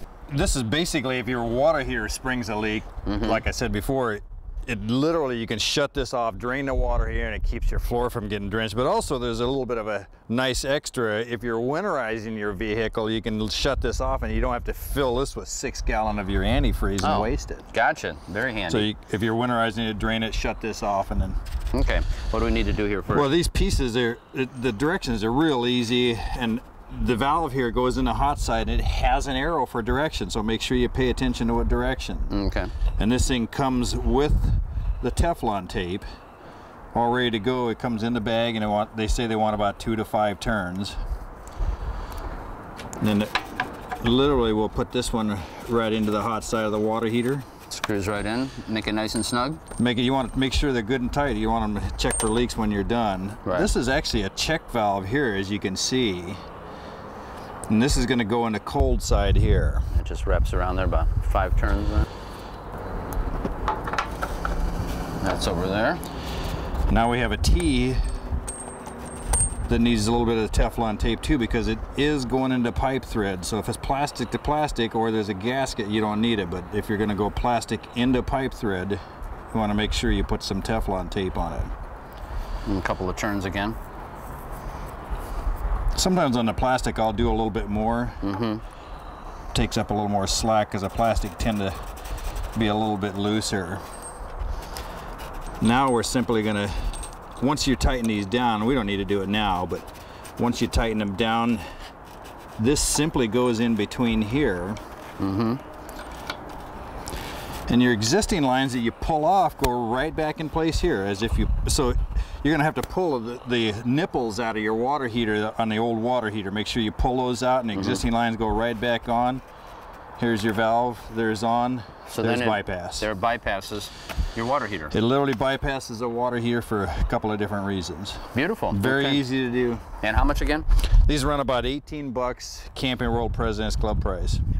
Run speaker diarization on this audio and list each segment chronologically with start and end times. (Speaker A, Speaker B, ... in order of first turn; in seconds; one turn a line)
Speaker A: 0.3-17.6
Speaker B: 3.0-3.4
Speaker B: 17.0-18.9
Speaker A: 18.7-21.4
Speaker B: 21.7-23.3
Speaker A: 23.1-32.3
Speaker B: 32.3-32.7
Speaker A: 33.0-36.0
Speaker A: 36.9-41.0
Speaker A: 43.0-47.5
Speaker B: 47.7-49.6
Speaker A: 49.8-56.4
Speaker B: 53.4-53.7
Speaker A: 57.7-59.9
Speaker B: 59.9-62.1
Speaker B: 65.2-66.0
Speaker A: 66.9-68.0
Speaker A: 69.7-79.0
Speaker A: 79.5-81.7
Speaker B: 82.7-83.8
Speaker A: 85.9-88.2
Speaker B: 88.2-88.6
Speaker A: 89.5-91.8
Speaker A: 92.5-93.8
Speaker A: 95.6-101.6
Speaker A: 102.6-104.8
Speaker B: 105.2-105.6
Speaker A: 107.7-119.4
Speaker B: 117.7-118.0
Speaker A: 120.2-123.1
Speaker B: 122.2-124.9
Speaker A: 124.9-129.8
Speaker B: 128.3-129.2
Speaker B: 130.0-130.7
Speaker A: 131.0-134.4